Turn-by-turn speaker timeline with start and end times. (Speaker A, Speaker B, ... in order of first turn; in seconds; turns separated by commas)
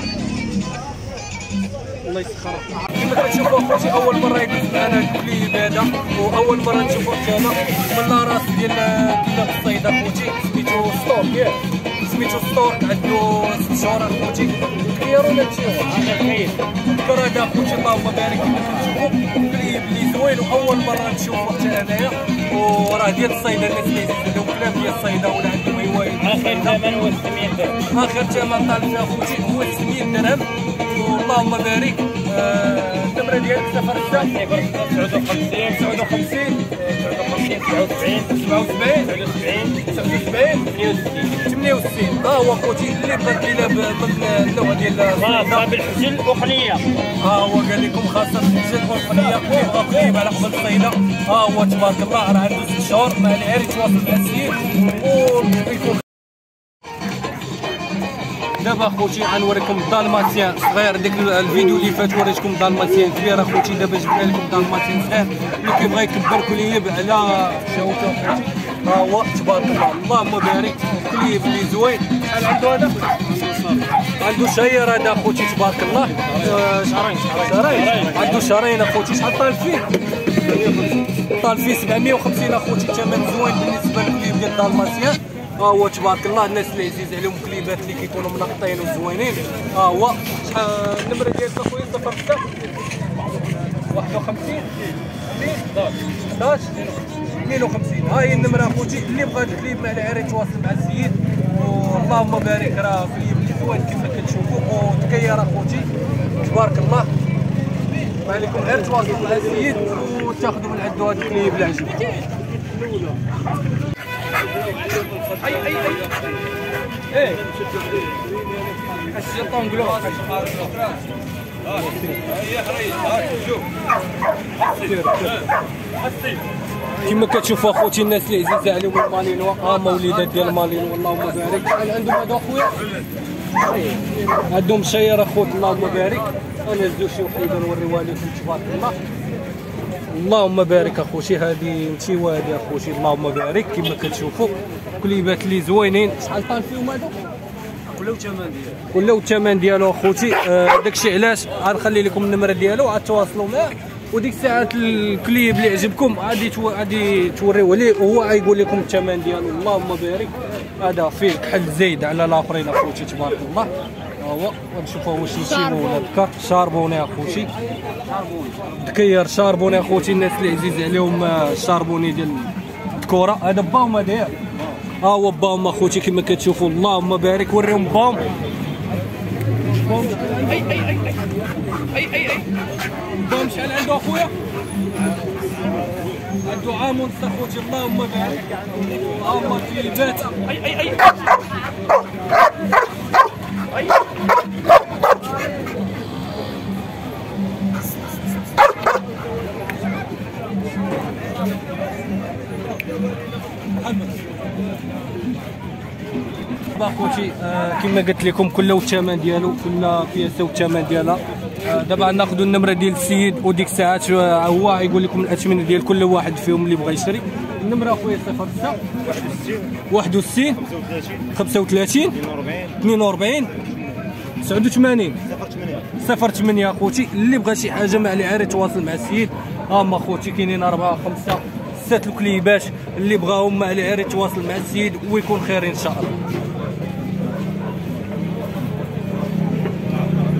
Speaker A: 2.0-16.2, Speaker B: 15.9-16.6, Speaker A: 16.9-26.9, Speaker B: 26.2-27.8, Speaker A: 27.8-34.5, Speaker B: 34.3-36.0, Speaker A: 35.5-36.8, Speaker B: 36.7-38.4, Speaker A: 38.1-45.8, Speaker B: 39.1-39.8, Speaker B: 45.2-46.9, Speaker A: 47.2-56.2, Speaker A: 58.6-79.9, Speaker B: 77.8-78.1, Speaker A: 80.5-92.5, Speaker A: 93.8-107.1, Speaker A: 108.2-112.2, Speaker A: 115.4-116.0, Speaker A: 119.0-120.7, Speaker A: 121.8-123.2, Speaker A: 124.6-125.5, Speaker A: 127.0-132.8, Speaker A: 134.4-139.0, Speaker A: 140.1-147.2, Speaker A: 148.0-148.3, Speaker A: 148.9-167.5, Speaker A: 168.6-174.3, Speaker A: 175.0-178.3, Speaker A: 179.8-181.2, Speaker A: 181.8-182.5, Speaker A: 183.2-184.3, Speaker A: 186.4-191.0, Speaker A: 203.8-204.1, Speaker A: 206.7-219.2, Speaker A: 219.9-220.6, Speaker A: 221.3-222.2, Speaker A: 222.8-223.5, Speaker A: 224.4-225.2, Speaker A: 225.9-236.2